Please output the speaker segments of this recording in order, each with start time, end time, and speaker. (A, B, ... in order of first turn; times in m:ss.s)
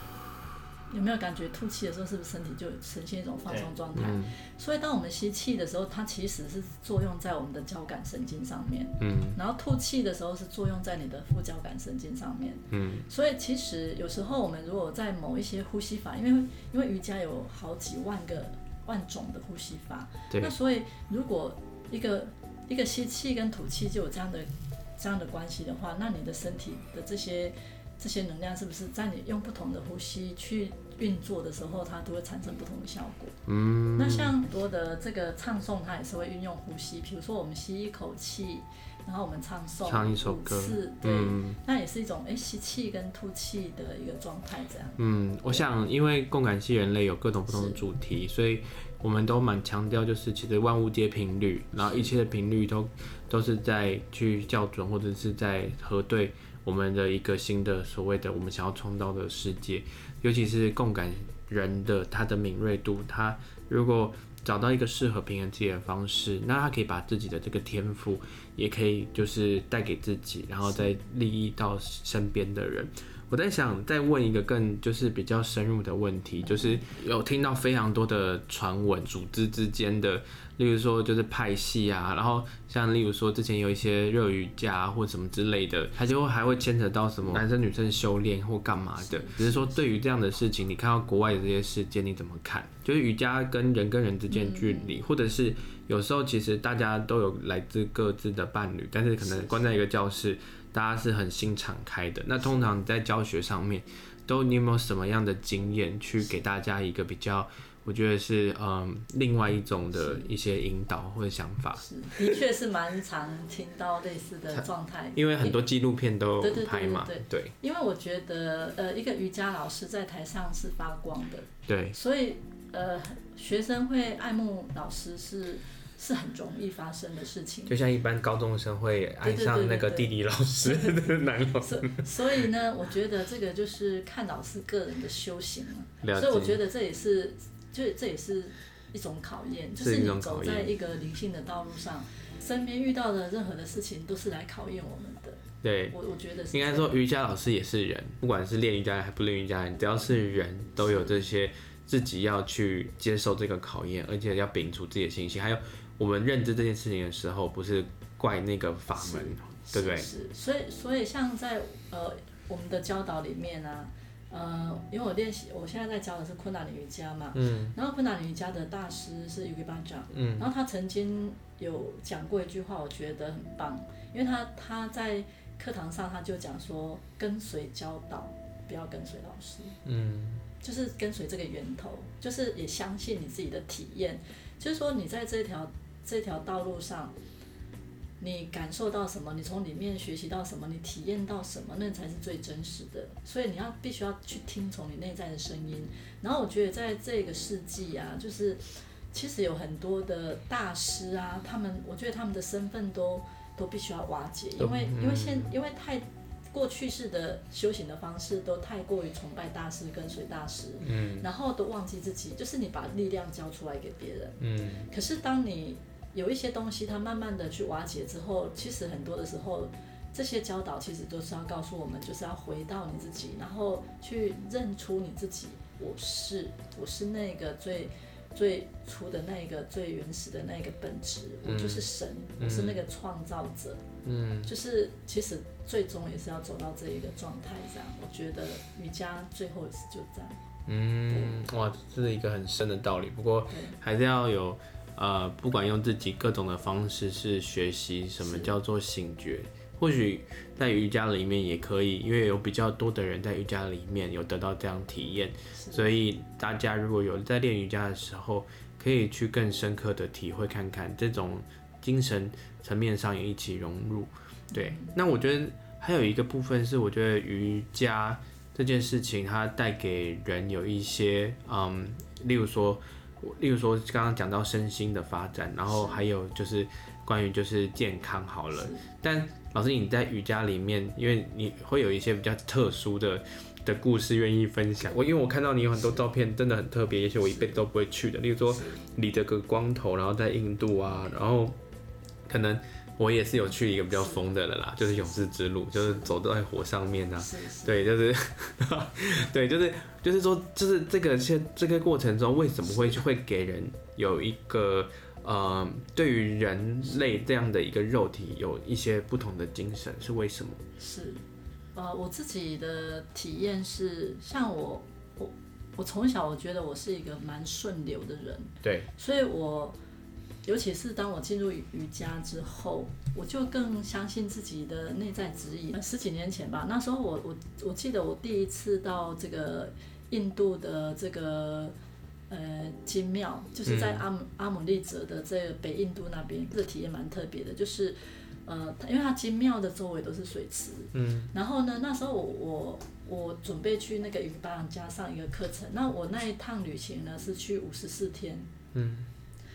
0:00.9-0:33.4 A
0:04.0-0:04.3 B
0:09.0-0:09.4 B
0:12.7-0:13.1 B
0:33.5-0:34.3 B
0:34.0-0:45.6 A
0:39.8-0:41.6 B
0:45.0-1:52.4 B
0:47.5-0:47.8 A
0:51.8-0:52.1 A
1:16.4-1:16.8 A
1:29.0-1:29.8 A
1:34.3-1:35.0 A
1:39.2-1:39.6 A
1:49.9-1:50.3 A
1:51.8-1:55.6 A
1:55.2-1:57.5 B
1:56.4-2:07.8 A
2:01.7-2:02.0 B
2:07.7-2:12.0 B
2:09.2-2:11.0 A
2:11.6-2:26.9 A
2:16.0-2:16.6 B
2:19.8-2:20.7 B
2:25.6-2:26.0 B
2:26.5-2:40.1 B
2:30.9-2:31.2 A
2:39.0-2:59.8 A
2:47.3-2:47.8 B
2:50.1-2:50.5 B
2:59.8-3:00.4 B
3:00.6-3:07.1 A
3:08.2-3:53.8 A
3:24.6-3:25.5 B
3:30.8-3:31.3 B
3:34.4-3:34.9 B
3:51.4-3:51.9 B
3:52.4-3:52.8 B
3:54.0-3:54.5 B
3:54.4-4:00.4 A
4:00.7-4:51.6 B
4:01.1-4:01.4 A
4:03.5-4:03.8 A
4:08.2-4:08.5 A
4:15.6-4:15.9 A
4:24.5-4:24.9 A
4:35.7-4:36.0 A
4:38.6-4:38.8 A
4:48.5-4:48.8 A
4:52.3-5:10.6 B
4:54.0-4:54.2 A
4:55.8-4:56.1 A
4:57.2-4:57.8 A
5:10.8-5:11.2 A
5:11.8-5:19.8 A
5:18.6-5:18.9 B
5:20.4-5:31.8 A
5:32.3-5:48.5 A
5:33.7-5:34.0 B
5:40.9-5:41.3 B
5:48.7-5:49.1 B